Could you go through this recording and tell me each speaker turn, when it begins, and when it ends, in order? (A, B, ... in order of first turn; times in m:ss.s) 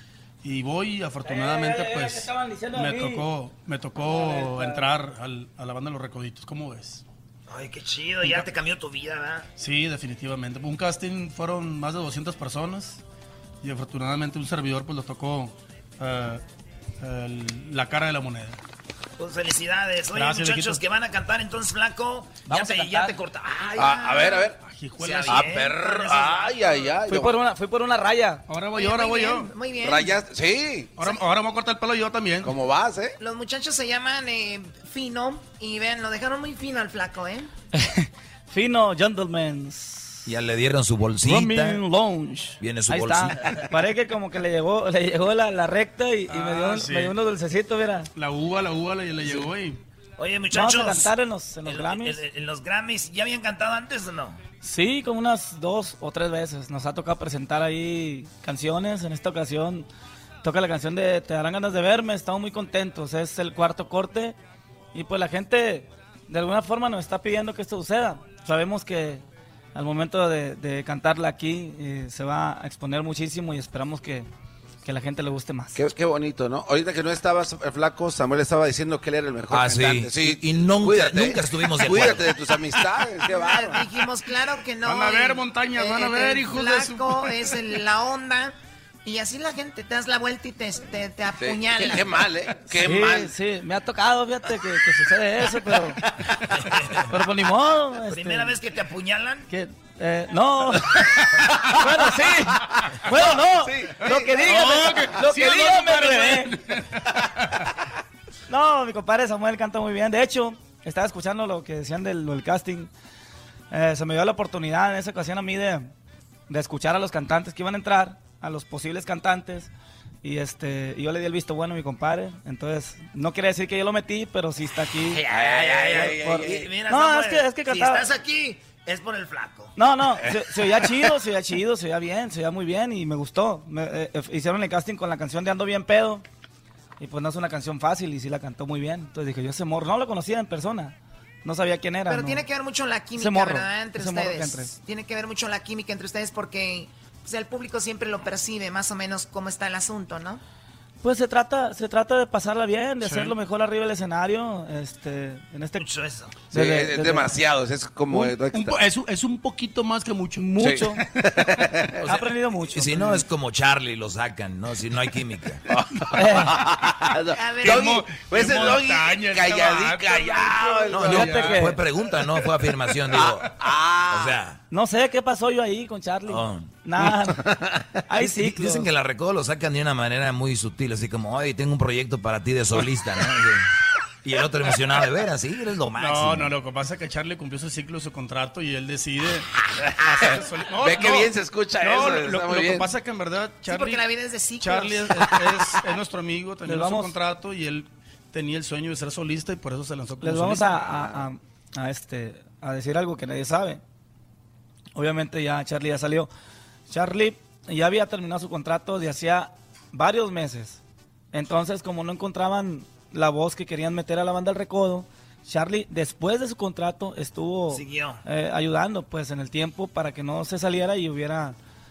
0:00.4-0:07.0 A
0:01.2-0:03.2 B
0:04.0-0:04.8 B
0:07.5-0:09.5 C
0:08.2-0:08.5 A
0:09.6-0:13.0 A
0:13.6-0:16.4 A
0:17.0-0:18.6 A
0:19.2-0:27.0 C
0:20.1-0:20.8 A
0:22.4-0:23.2 B
0:23.8-0:24.6 D
0:24.6-0:25.4 A
0:25.3-0:27.4 D
0:27.1-0:28.4 B
0:28.5-0:29.5 A
0:28.8-0:30.2 E
0:29.8-0:31.0 D
0:31.0-0:32.6 A
0:32.4-0:33.2 D
0:33.2-0:37.5 E
0:37.8-0:40.3 B
0:40.3-0:41.8 F
0:41.2-0:48.1 B
0:42.6-0:43.3 F
0:46.3-0:47.2 A
0:48.2-0:49.8 A
0:50.2-0:51.1 C
0:50.5-0:52.2 B
0:51.6-0:54.4 C
0:54.6-0:59.9 B
1:00.4-1:04.4 B
1:04.9-1:09.2 B
1:09.7-1:14.3 B
1:14.8-1:15.8 B
1:15.8-1:23.8 D
1:19.5-1:22.3 F
1:23.3-1:32.2 E
1:24.8-1:27.6 A
1:31.4-1:33.3 D
1:32.7-1:36.0 B
1:36.6-1:37.0 C
1:37.1-1:38.6 B
1:38.1-1:39.5 C
1:39.5-1:46.6 B
1:43.2-1:44.2 D
1:44.4-1:46.8 A
1:48.5-1:52.9 B
1:53.7-1:55.9 B
1:56.5-1:59.7 B
2:00.2-2:05.2 B
2:05.1-2:09.7 C
2:05.3-2:06.7 D
2:05.9-2:08.0 B
2:09.8-2:16.2 B
2:17.0-2:22.4 B
2:22.1-2:30.4 E
2:23.2-2:24.7 B
2:31.0-2:35.8 B
2:33.0-2:33.4 A
2:35.8-2:36.5 C
2:36.5-2:37.3 B
2:36.5-2:38.8 D
2:38.1-2:40.5 A
2:40.4-2:41.0 B
2:40.6-2:42.0 D
2:42.0-2:43.2 B
2:42.7-2:45.6 F
2:45.7-2:51.5 D
2:46.1-2:46.6 B
2:47.3-2:48.0 E
2:47.6-2:51.7 A
2:51.0-2:51.8 B
2:51.0-2:53.5 F
2:53.1-2:54.4 D
2:54.1-2:54.6 F
2:54.7-2:57.6 B
2:56.3-2:56.7 F
2:57.4-2:57.7 D
2:58.1-2:58.9 B
2:58.3-3:03.6 F
3:04.2-3:06.5 F
3:06.0-3:14.0 A
3:10.1-3:12.9 D
3:13.7-3:15.1 E
3:14.6-3:21.0 A
3:16.6-3:17.1 B
3:20.2-3:23.8 B
3:25.0-3:26.3 B
3:26.9-3:30.8 B
3:31.3-3:41.6 B
3:37.7-3:38.2 C